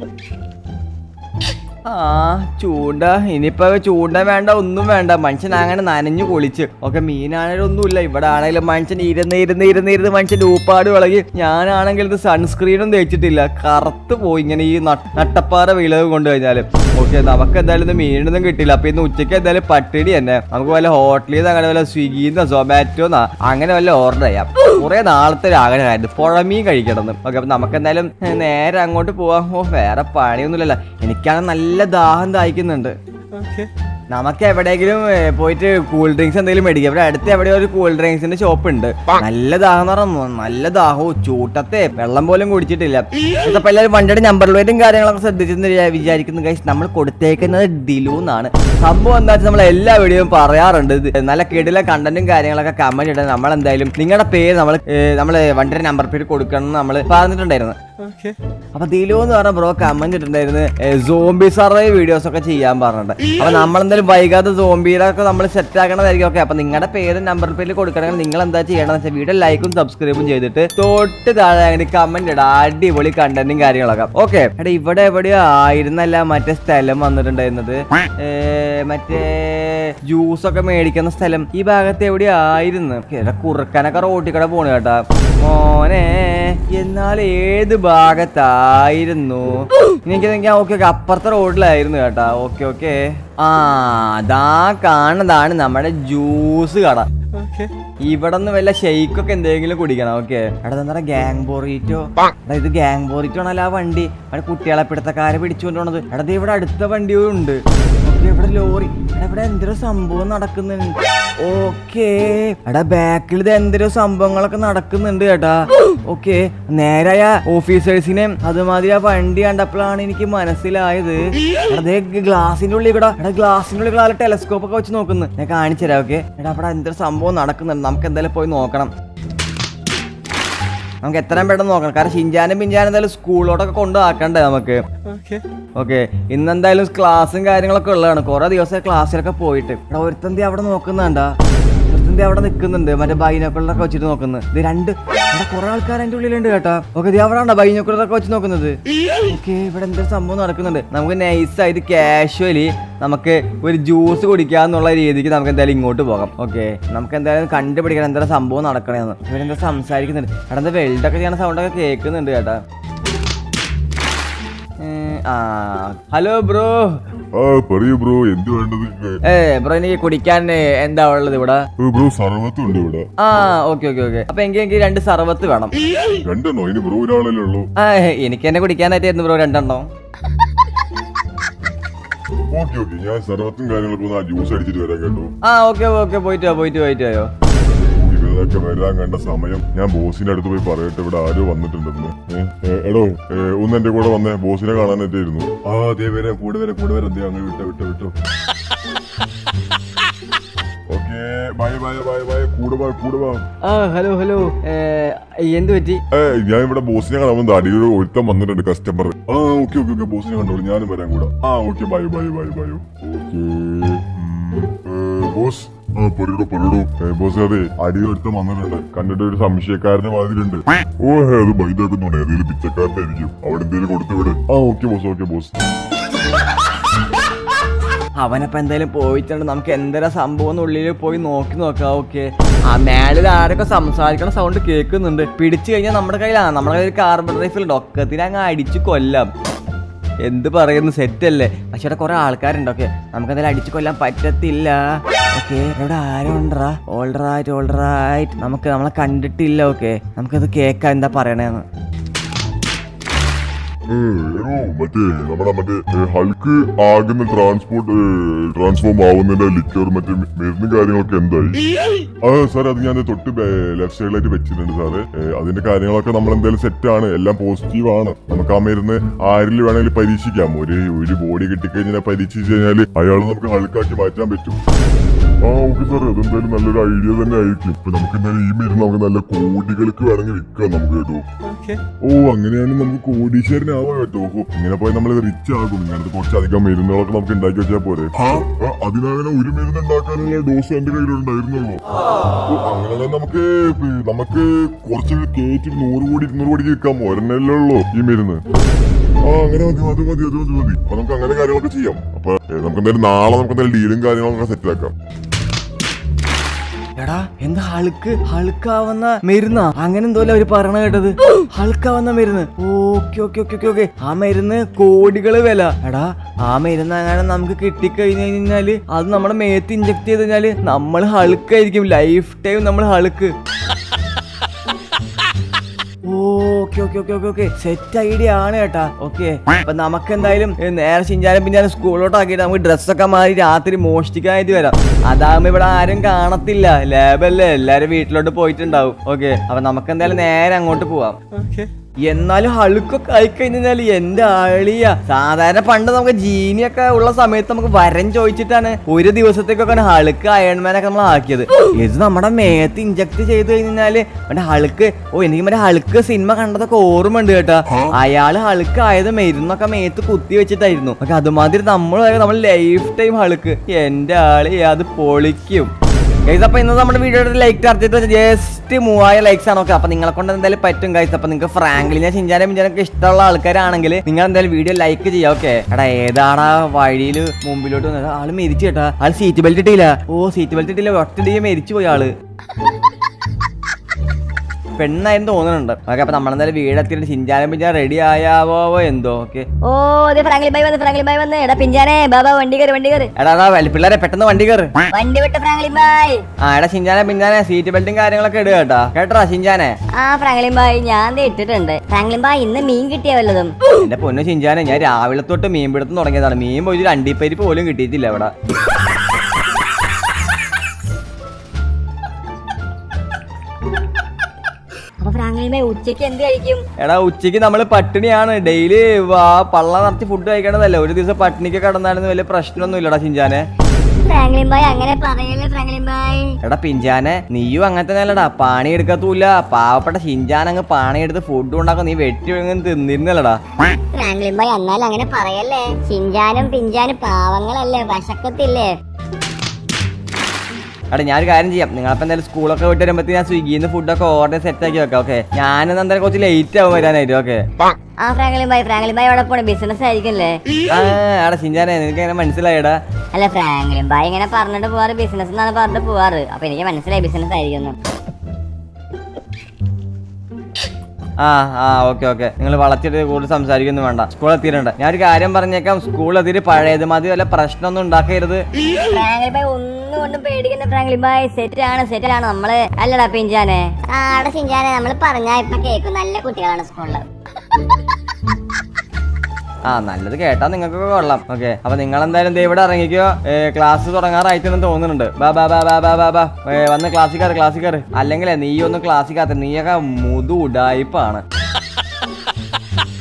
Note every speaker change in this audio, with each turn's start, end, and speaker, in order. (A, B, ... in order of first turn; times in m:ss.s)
0:01.9-0:32.9 A
0:34.1-0:57.8 A
0:58.7-2:08.9 A
2:11.0-2:21.3 A
2:21.9-2:28.7 A
2:29.3-2:42.6 A
2:44.8-2:46.9 A
2:47.3-2:49.2 B
2:49.2-2:51.6 A
2:51.8-2:53.0 B
2:53.2-2:55.8 A
2:56.2-2:57.6 B
2:57.8-2:59.9 A
3:02.5-3:05.3 B
3:05.4-3:07.3 A
3:07.8-3:18.1 B
3:20.9-3:23.4 B
3:23.6-3:26.0 A
3:26.1-3:45.6 B
3:48.2-3:59.3 A
4:00.2-4:11.6 A
4:13.9-4:21.6 B
4:22.2-4:34.6 B
4:35.4-4:41.2 B
4:42.0-4:51.8 B
4:52.5-4:58.4 B
4:59.2-5:04.9 B
5:07.0-5:23.3 A
5:26.1-5:41.2 A
5:42.1-6:05.7 A
6:06.3-6:22.1 A
6:24.8-6:29.4 A
6:29.6-6:33.1 C
6:33.2-6:34.7 A
6:34.9-6:36.2 C
6:36.4-6:39.7 A
6:40.0-6:43.5 C
6:43.7-6:48.3 A
6:55.0-6:56.6 C
6:56.8-7:03.4 A
7:04.0-7:06.3 C
7:06.4-7:13.4 A
7:13.9-7:18.7 C
7:20.9-7:27.4 A
7:28.0-7:30.4 C
7:30.7-7:32.8 A
7:33.1-7:37.8 C
7:41.2-7:48.4 A
7:48.9-7:57.0 C
7:59.7-8:11.2 A